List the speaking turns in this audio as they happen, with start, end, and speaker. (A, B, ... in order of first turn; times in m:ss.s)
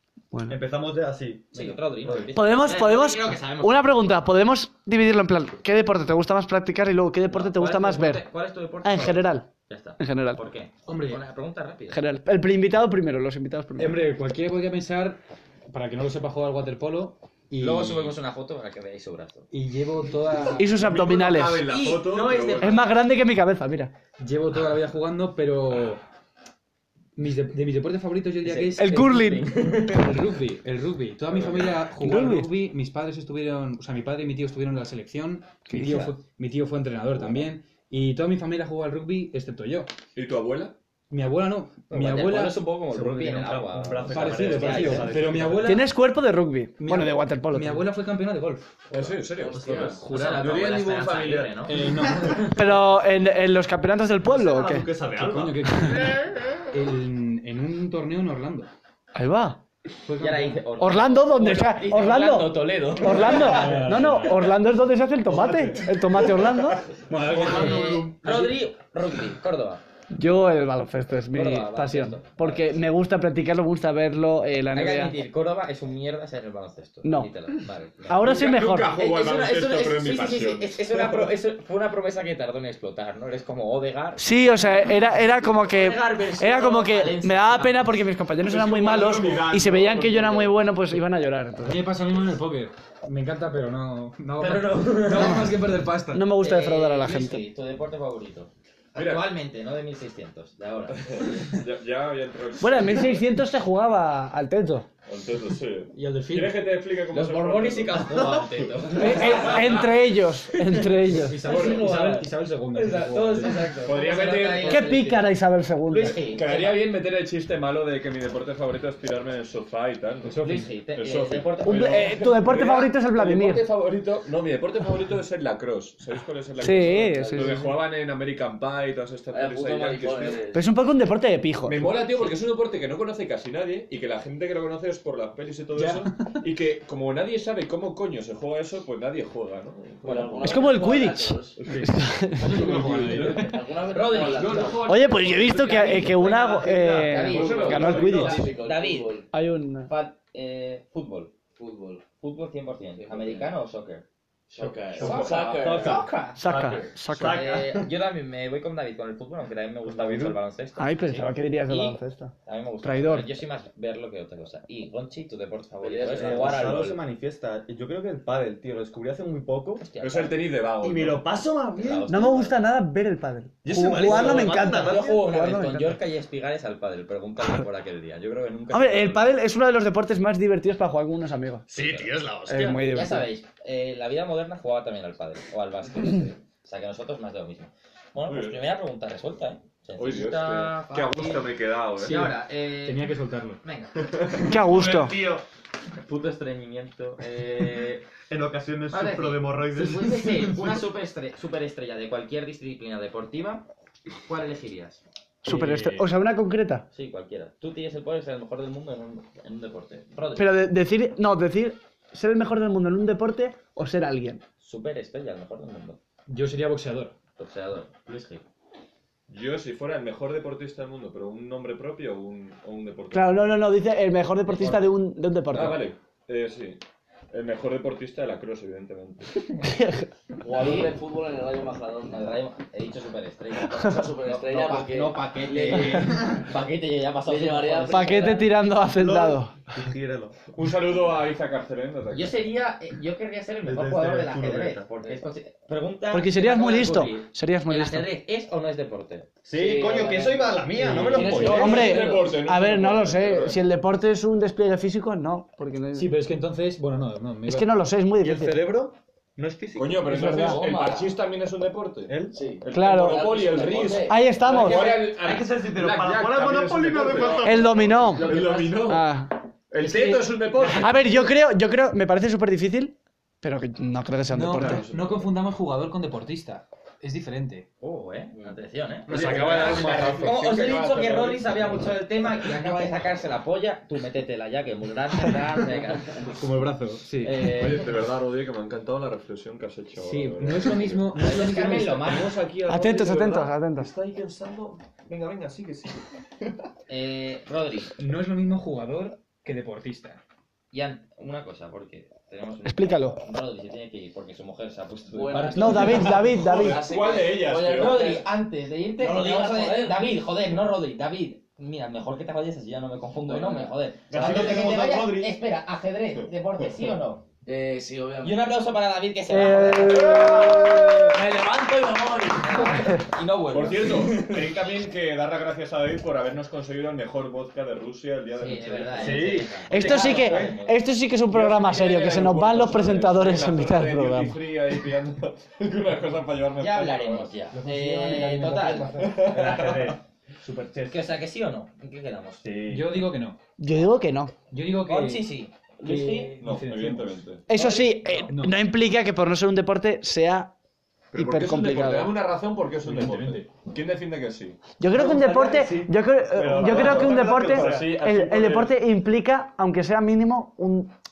0:00.3-0:00.6 A
0:00.5-0:02.4 B
0:01.5-0:04.1 C
0:02.3-0:08.2 A
0:07.3-0:12.1 C
0:08.8-0:09.5 A
0:10.0-0:10.4 A
0:10.8-0:11.2 D
0:11.9-0:14.0 A
0:13.8-0:18.2 D
0:17.6-0:19.5 C
0:19.5-0:20.7 D
0:20.6-0:21.7 A
0:20.7-0:22.8 E
0:21.7-0:22.8 C
0:22.6-0:23.9 A
0:24.2-0:26.0 D
0:27.2-0:29.3 D
0:28.4-0:30.1 C
0:28.8-0:29.5 A
0:29.9-0:39.9 D
0:31.3-0:31.9 E
0:32.0-0:32.5 A
0:35.7-0:36.0 A
0:35.7-0:36.2 C
0:40.1-0:40.7 E
0:41.1-0:42.6 D
0:41.9-0:45.2 C
0:42.9-0:45.8 B
0:44.0-0:45.9 D
0:45.6-0:47.8 A
0:46.8-0:48.7 D
0:48.9-0:51.8 E
0:49.4-0:51.9 C
0:49.6-0:50.6 D
0:51.6-0:52.8 D
0:52.4-0:54.9 A
0:54.2-0:55.6 B
0:55.2-0:58.7 D
0:59.1-0:59.6 A
1:00.0-1:00.6 D
1:00.2-1:04.0 C
1:00.8-1:06.8 A
1:03.4-1:04.6 D
1:05.3-1:08.2 E
1:07.1-1:08.0 D
1:07.3-1:09.8 C
1:10.1-1:15.2 A
1:11.3-1:12.8 C
1:14.7-1:24.8 C
1:18.1-1:18.9 A
1:18.1-1:21.3 E
1:24.2-1:31.8 A
1:25.5-1:27.9 C
1:28.4-1:30.6 E
1:31.6-1:36.2 D
1:34.4-1:35.5 C
1:35.1-1:35.5 A
1:36.1-1:37.4 A
1:36.4-1:41.5 C
1:38.9-1:39.3 E
1:40.9-1:43.2 E
1:42.6-1:44.8 A
1:45.0-1:49.7 E
1:45.9-1:46.6 D
1:47.1-1:49.9 C
1:48.9-1:51.4 A
1:49.1-1:49.5 D
1:51.0-1:55.3 C
1:51.0-1:53.7 D
1:51.4-1:51.9 E
1:53.7-1:55.0 E
1:54.6-1:56.2 A
1:55.9-1:56.8 C
1:55.9-2:00.4 E
2:00.2-2:00.7 D
2:00.4-2:02.1 C
2:00.9-2:10.5 E
2:01.6-2:03.6 A
2:06.6-2:07.6 A
2:09.3-2:10.6 F
2:10.5-2:11.9 A
2:11.6-2:20.7 E
2:15.7-2:16.1 D
2:20.0-2:21.6 F
2:20.4-2:22.6 A
2:21.6-2:22.0 E
2:21.7-2:23.5 D
2:22.5-2:28.6 E
2:23.0-2:24.9 F
2:23.9-2:24.8 C
2:24.8-2:28.5 A
2:26.0-2:26.4 F
2:26.8-2:27.2 B
2:27.0-2:29.3 C
2:27.1-2:29.2 F
2:29.3-2:29.9 A
2:29.9-2:31.3 C
2:31.6-2:32.0 F
2:32.2-2:34.0 C
2:32.9-2:33.5 F
2:34.5-2:36.0 F
2:34.6-2:36.4 C
2:34.9-2:35.8 E
2:35.5-2:37.9 B
2:36.4-2:37.5 A
2:37.1-2:47.0 C
2:39.8-2:40.4 B
2:40.8-2:43.3 A
2:45.8-2:46.7 F
2:46.1-2:49.9 B
2:49.8-2:50.4 C
2:50.0-2:51.2 E
2:50.8-2:52.1 B
2:51.8-2:52.6 C
2:52.0-2:55.9 A
2:53.6-2:55.2 B
2:53.9-2:59.4 C
2:58.7-3:01.6 A
3:01.7-3:11.4 C
3:01.7-3:02.6 F
3:02.4-3:03.3 A
3:08.2-3:08.6 E
3:10.0-3:12.3 E
3:12.0-3:13.6 D
3:12.0-3:13.1 C
3:13.6-3:14.0 C
3:14.1-3:14.5 E
3:14.5-3:15.1 A
3:14.6-3:15.4 B
3:16.0-3:18.1 C
3:18.3-3:20.8 B
3:18.9-3:25.0 C
3:25.4-3:26.8 A
3:25.4-3:26.1 D
3:26.9-3:30.5 C
3:30.4-3:34.4 A
3:34.6-3:36.0 C
3:36.3-3:37.1 D
3:37.4-3:38.5 C
3:39.3-3:43.4 E
3:43.1-3:45.8 A
3:44.5-3:44.8 C
3:44.6-3:44.8 E
3:45.5-3:46.8 E
3:47.3-3:49.3 E
3:49.6-3:50.1 A
3:50.4-3:52.3 F
3:50.5-3:51.0 C
3:52.1-3:58.5 C
3:53.8-3:56.4 F
3:57.2-3:58.4 F
3:57.9-3:59.6 A
3:58.9-4:00.6 B
4:00.5-4:02.4 E
4:02.1-4:12.2 C
4:03.6-4:04.9 B
4:06.1-4:08.1 A
4:09.4-4:12.0 B
4:10.8-4:11.9 D
4:11.2-4:13.6 E
4:11.6-4:16.1 A
4:15.9-4:17.7 D
4:17.4-4:18.6 A
4:18.2-4:20.6 B
4:19.7-4:29.1 E
4:20.1-4:20.7 A
4:20.2-4:21.2 F
4:22.1-4:22.4 B
4:22.3-4:24.7 F
4:22.7-4:23.3 A
4:24.0-4:25.1 A
4:24.6-4:28.2 B
4:27.4-4:29.3 A
4:28.1-4:28.8 F
4:29.7-4:31.0 E
4:30.6-4:34.8 A
4:34.3-4:37.6 D
4:34.6-4:35.3 E
4:37.8-4:46.4 C
4:39.1-4:40.4 D
4:39.1-4:41.8 E
4:46.4-4:47.6 D
4:47.2-4:47.9 C
4:47.4-4:56.6 E
4:50.0-4:52.2 D
4:51.1-4:52.3 C
4:52.6-4:53.9 A
4:56.9-4:57.9 C
4:58.0-5:00.2 D
5:00.7-5:06.3 C
5:02.6-5:03.2 A
5:05.1-5:08.2 F
5:05.3-5:08.1 E
5:05.5-5:06.8 A
5:07.5-5:17.2 C
5:09.0-5:10.0 F
5:13.2-5:14.3 F
5:14.1-5:14.9 E
5:14.1-5:15.3 B
5:17.4-5:18.5 F
5:18.2-5:20.3 C
5:19.3-5:21.0 A
5:19.8-5:21.1 E
5:20.2-5:22.9 F
5:22.4-5:24.4 C
5:23.5-5:30.3 E
5:28.4-5:30.8 C
5:28.9-5:30.6 B
5:29.7-5:34.4 A
5:31.3-5:37.3 E
5:36.6-5:39.0 C
5:37.5-5:39.9 D
5:39.0-5:40.0 E
5:39.6-5:39.9 B
5:40.4-5:40.9 D
5:40.8-5:42.4 C
5:42.4-5:43.0 E
5:42.6-5:43.4 D
5:43.6-5:44.3 A
5:44.5-5:45.3 D
5:44.8-5:46.4 C
5:45.8-5:47.2 D
5:46.4-5:47.5 E
5:47.5-5:50.5 A
5:47.5-5:47.8 C
5:48.1-5:48.6 D
5:51.1-5:54.6 E
5:51.1-5:52.1 A
5:52.8-5:53.5 D
5:54.8-6:00.9 A
5:54.9-5:58.0 B
5:56.5-5:58.7 E